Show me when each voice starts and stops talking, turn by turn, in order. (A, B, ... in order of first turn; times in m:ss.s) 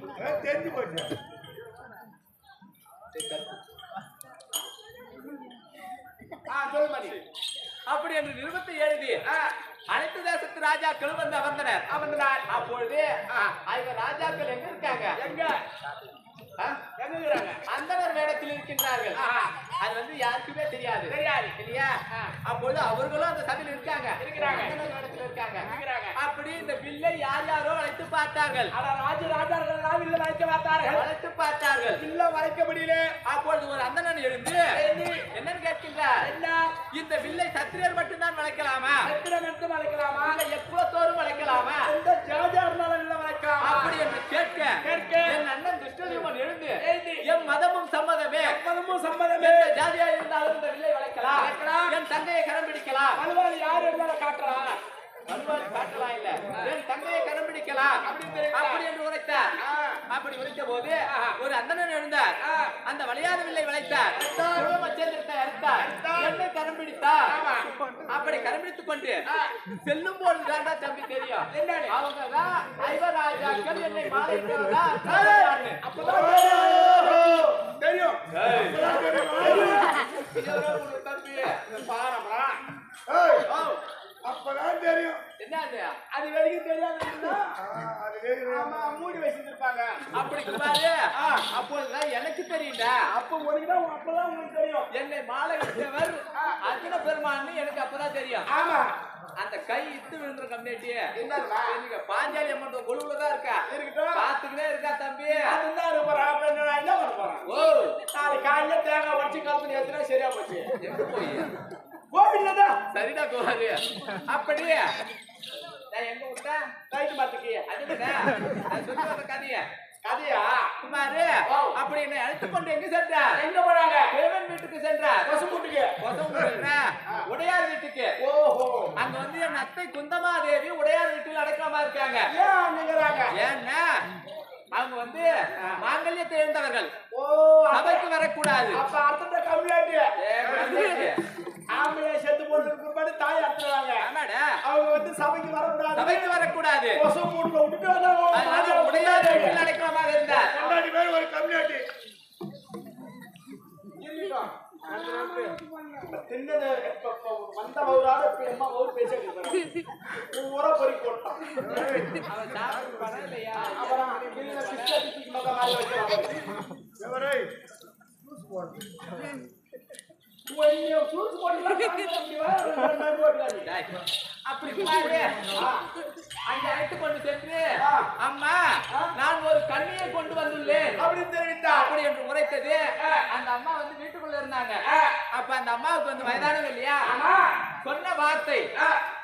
0:00.2-0:01.1 A
0:03.1-0:03.6 B
0:06.5-0:07.2 C
0:07.9-0:09.2 B
0:09.3-0:09.5 C
0:09.9-0:11.8 B
0:11.9-0:12.5 C
0:12.5-0:13.1 B
0:13.7-0:15.2 B
0:15.2-0:15.6 C
0:17.0-0:17.6 C
0:17.7-0:19.2 B
0:19.2-0:19.6 C
0:19.8-0:28.7 B
0:21.1-0:21.5 C
0:24.2-0:24.8 C
0:25.7-0:26.2 C
0:28.7-0:31.1 C
0:30.9-0:32.0 B
0:32.0-0:33.2 C
0:33.2-0:34.7 B
0:34.7-0:35.2 C
0:35.3-0:36.2 B
0:36.2-0:36.7 C
0:36.9-0:39.1 B
0:39.0-0:40.4 C
0:40.2-0:41.9 B
0:41.8-0:44.0 C
0:43.6-0:48.6 B
0:44.8-0:45.4 C
0:46.8-0:47.2 C
0:48.3-0:49.8 C
0:49.4-0:53.2 B
0:51.3-0:51.9 C
0:53.2-0:54.8 C
0:55.3-0:59.5 B
0:58.0-0:58.8 C
0:59.6-1:00.0 C
1:00.1-1:02.3 B
1:01.1-1:01.4 C
1:02.4-1:02.7 C
1:02.8-1:07.3 B
1:04.2-1:04.7 C
1:05.8-1:06.4 C
1:07.3-1:07.7 C
1:08.1-1:15.8 B
1:09.3-1:09.5 C
1:11.5-1:11.9 C
1:15.0-1:20.0 C
1:16.0-1:17.5 A
1:18.3-1:21.6 B
1:18.5-1:19.9 A
1:21.7-1:22.6 C
1:23.1-1:23.5 A
1:23.5-1:23.8 C
1:24.2-1:25.2 A
1:25.4-1:26.0 B
1:26.1-1:27.6 C
1:27.6-1:29.0 A
1:28.5-1:30.0 C
1:30.2-1:31.0 B
1:31.2-1:31.5 C
1:31.5-1:33.0 B
1:33.1-1:34.9 C
1:34.9-1:38.5 B
1:38.5-1:38.9 C
1:39.4-1:41.0 B
1:41.2-1:41.8 C
1:41.7-1:45.5 B
1:43.7-1:44.3 C
1:45.3-1:47.5 C
1:47.4-1:48.0 B
1:48.1-1:50.7 C
1:50.8-1:51.5 B
1:52.1-1:52.8 C
1:52.9-1:54.9 B
1:55.9-1:56.7 B
1:56.9-1:58.0 C
1:57.7-1:59.7 B
2:00.0-2:00.7 C
2:00.8-2:03.4 B
2:01.5-2:01.8 C
2:03.4-2:04.1 C
2:04.1-2:05.3 B
2:05.2-2:05.9 C
2:06.0-2:08.2 B
2:08.2-2:09.0 C
2:09.0-2:12.3 B
2:12.3-2:13.4 C
2:13.3-2:14.0 B
2:14.7-2:16.9 B
2:17.1-2:18.1 C
2:17.7-2:18.8 B
2:18.7-2:21.2 C
2:20.2-2:21.2 B
2:21.7-2:24.0 C
2:24.0-2:24.6 B
2:24.6-2:26.3 C
2:26.0-2:27.0 B
2:27.0-2:29.6 C
2:28.3-2:30.6 B
2:30.3-2:30.9 C
2:30.6-2:31.9 A
2:34.0-2:39.6 C
2:34.9-2:35.5 A
2:40.3-2:41.6 C
2:41.6-2:42.8 A
2:42.3-2:45.1 B
2:43.6-2:46.4 C
2:47.0-2:47.5 A
2:48.2-2:49.0 A
2:50.5-2:53.7 C
2:53.6-2:55.6 B
2:55.5-2:55.8 C
2:56.5-2:57.6 B
2:57.8-2:58.1 C
2:58.2-3:01.0 B
3:01.0-3:02.0 C
3:01.7-3:07.1 B
3:04.8-3:05.2 C
3:07.0-3:07.6 C
3:07.8-3:08.7 B